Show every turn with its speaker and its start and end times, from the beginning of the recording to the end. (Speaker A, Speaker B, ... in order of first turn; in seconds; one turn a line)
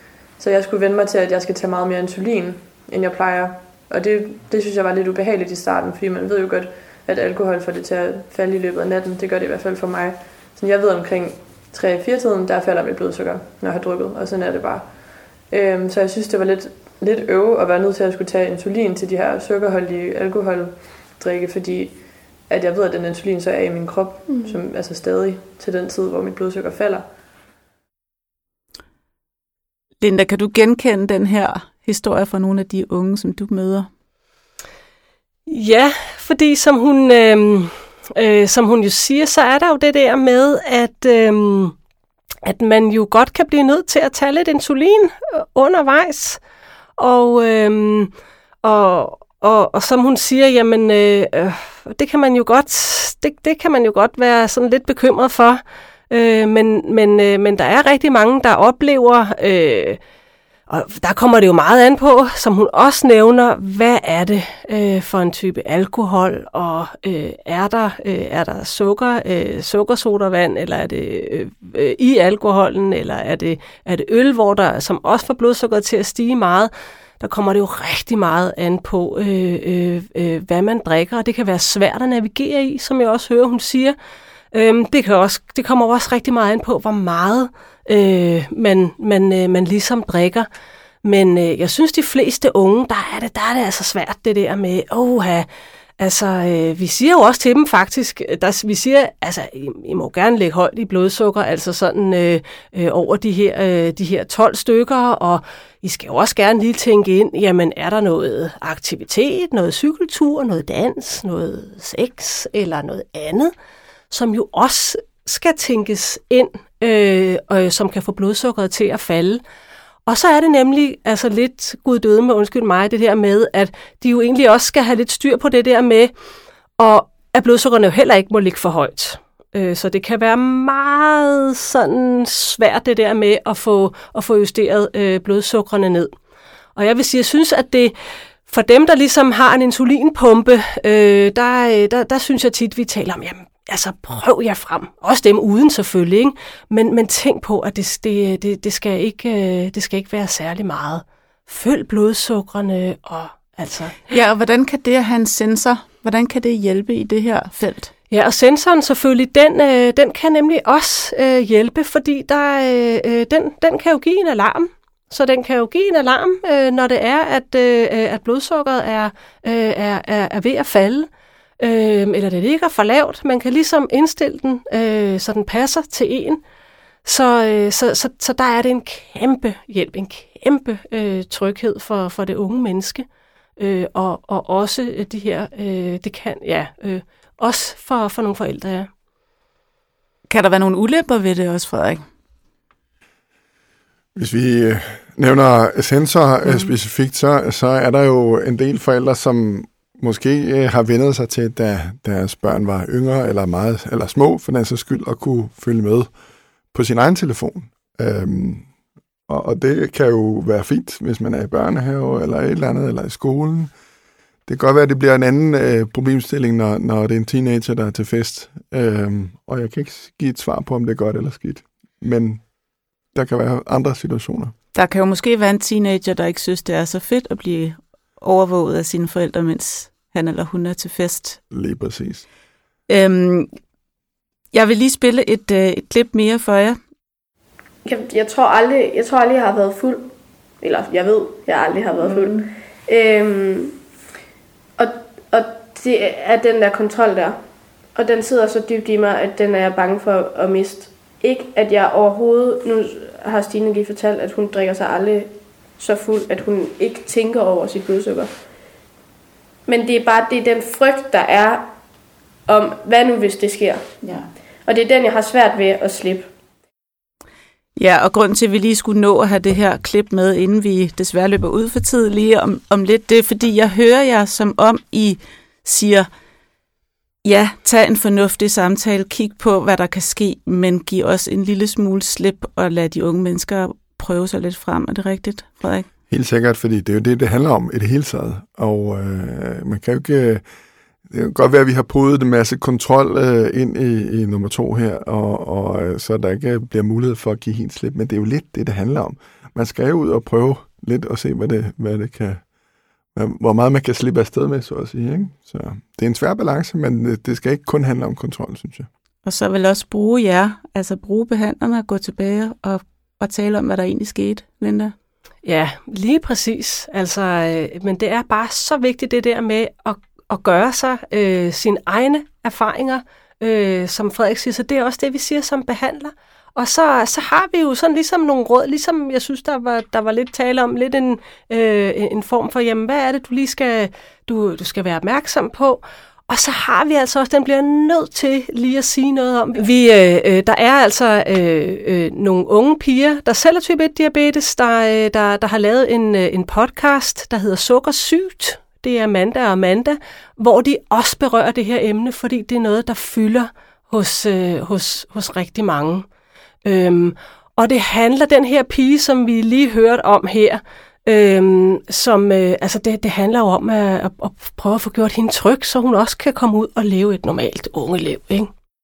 Speaker A: 0.4-14.8
Speaker A: 15.5-21.9
Speaker A: 22.5-27.0
Speaker B: 30.0-33.9
Speaker C: 35.5-41.7
Speaker C: 42.4-46.4
Speaker C: 47.0-48.1
Speaker C: 48.6-60.0
Speaker C: 60.7-83.9
Speaker C: 84.5-90.5
Speaker C: 91.0-95.5
Speaker C: 96.0-113.5
Speaker C: 114.1-119.4
Speaker C: 120.0-126.1
Speaker C: 126.8-136.1
Speaker C: 136.8-137.9
Speaker C: 138.5-154.0
Speaker B: 154.1-157.9
Speaker C: 158.1-171.1
Speaker C: 171.6-176.4
Speaker C: 177.0-183.1
Speaker C: 183.6-188.9
Speaker B: 190.3-192.0
Speaker D: 194.2-206.1
Speaker D: 206.7-208.7
Speaker D: 209.3-213.7
Speaker D: 214.5-222.4
Speaker D: 223.1-224.5
Speaker B: 224.7-231.4
Speaker D: 231.5-232.2
Speaker B: 232.9-233.5
Speaker B: 234.5-236.8
Speaker E: 237.8-243.8
Speaker E: 244.8-247.4
Speaker E: 247.9-258.3
Speaker E: 259.7-261.7
Speaker E: 262.5-263.8
Speaker B: 264.0-264.3
Speaker E: 264.6-266.3
Speaker B: 267.8-276.1
Speaker B: 277.2-285.9
Speaker D: 286.1-290.4
Speaker D: 291.1-302.4
Speaker D: 303.1-308.9
Speaker B: 309.2-314.9
Speaker C: 315.4-356.1
Speaker C: 356.6-368.5